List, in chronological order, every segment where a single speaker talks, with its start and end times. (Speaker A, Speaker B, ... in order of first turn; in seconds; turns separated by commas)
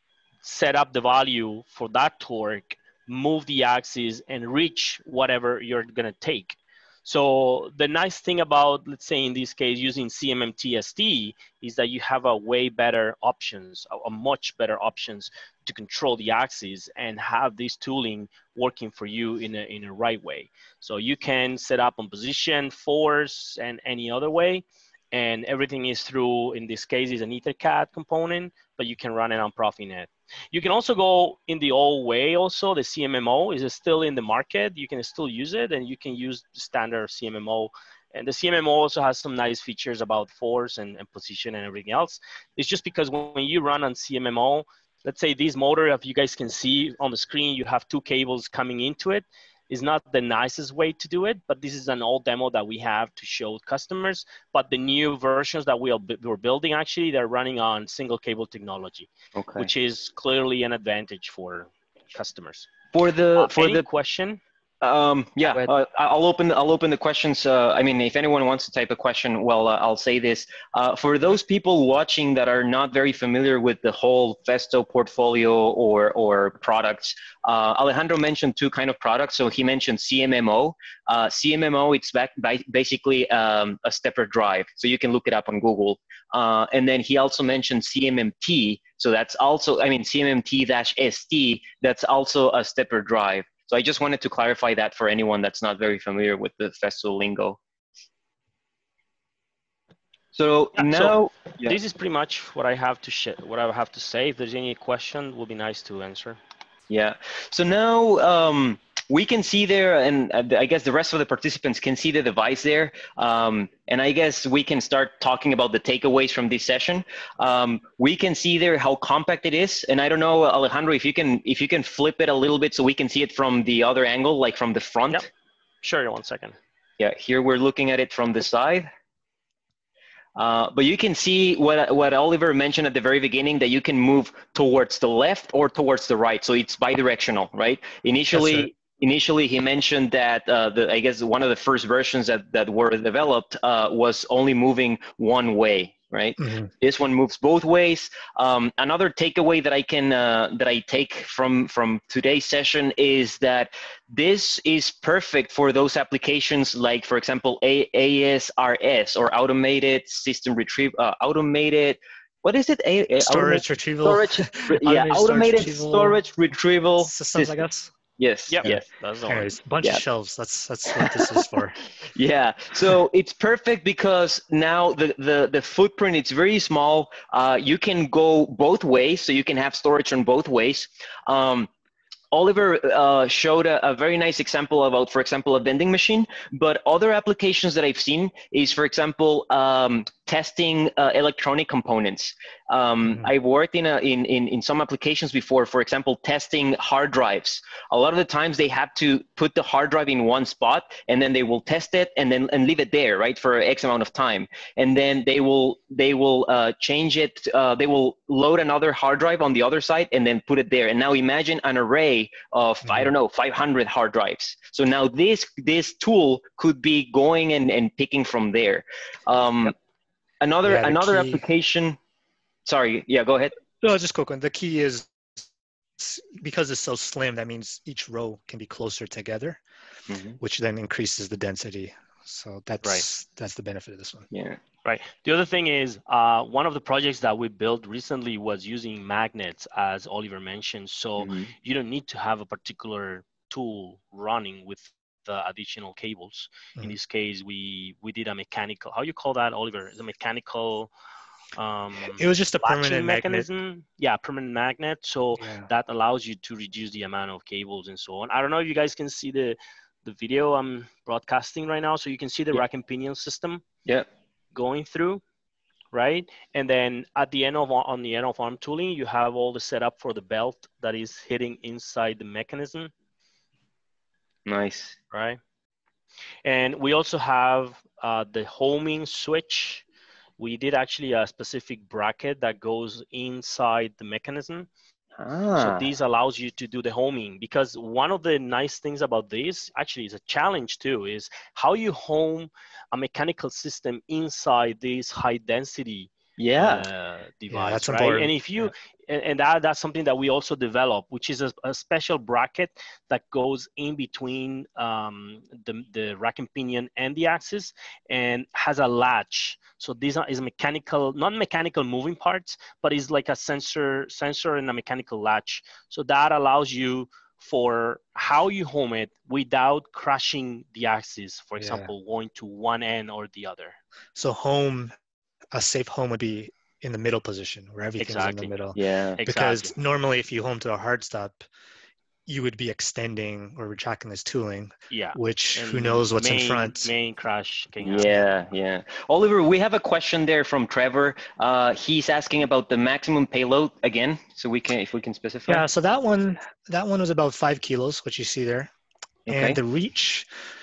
Speaker A: 0.4-62.7, Speaker B: 59.4-59.7, Speaker B: 62.9-63.9, Speaker A: 63.4-64.4, Speaker B: 64.8-97.6, Speaker B: 100.3-101.8, Speaker A: 100.8-106.4, Speaker B: 106.9-125.3, Speaker A: 125.8-126.6, Speaker B: 127.0-128.9, Speaker B: 130.4-167.6, Speaker C: 138.3-138.7, Speaker C: 146.4-146.7, Speaker C: 163.2-166.2, Speaker C: 167.0-167.9, Speaker B: 168.2-168.8, Speaker A: 168.5-169.5, Speaker C: 169.3-171.8, Speaker B: 170.9-171.4, Speaker B: 172.0-181.7, Speaker B: 182.3-219.7, Speaker C: 212.8-213.1, Speaker B: 220.4-222.0, Speaker C: 220.6-221.4, Speaker B: 222.7-223.6, Speaker C: 223.8-225.4, Speaker C: 226.0-229.6, Speaker B: 230.1-230.4, Speaker C: 230.4-234.3, Speaker B: 234.3-234.6, Speaker A: 234.8-250.9, Speaker B: 241.2-241.5, Speaker A: 251.6-263.6, Speaker C: 252.1-253.5, Speaker C: 255.4-255.7, Speaker A: 264.6-265.2, Speaker A: 265.9-272.9, Speaker B: 274.5-275.0, Speaker A: 275.1-275.4, Speaker A: 276.4-279.9, Speaker A: 280.4-284.7, Speaker B: 285.2-285.9, Speaker A: 285.6-323.8, Speaker B: 296.4-296.9, Speaker C: 297.5-298.7, Speaker C: 321.6-321.9, Speaker C: 324.2-324.9, Speaker C: 325.5-331.4, Speaker A: 328.0-328.5, Speaker B: 328.8-329.2, Speaker A: 329.2-329.7, Speaker C: 332.3-336.9, Speaker A: 334.9-338.2, Speaker B: 337.8-345.6, Speaker C: 345.5-348.7, Speaker B: 349.3-349.6, Speaker C: 349.3-350.3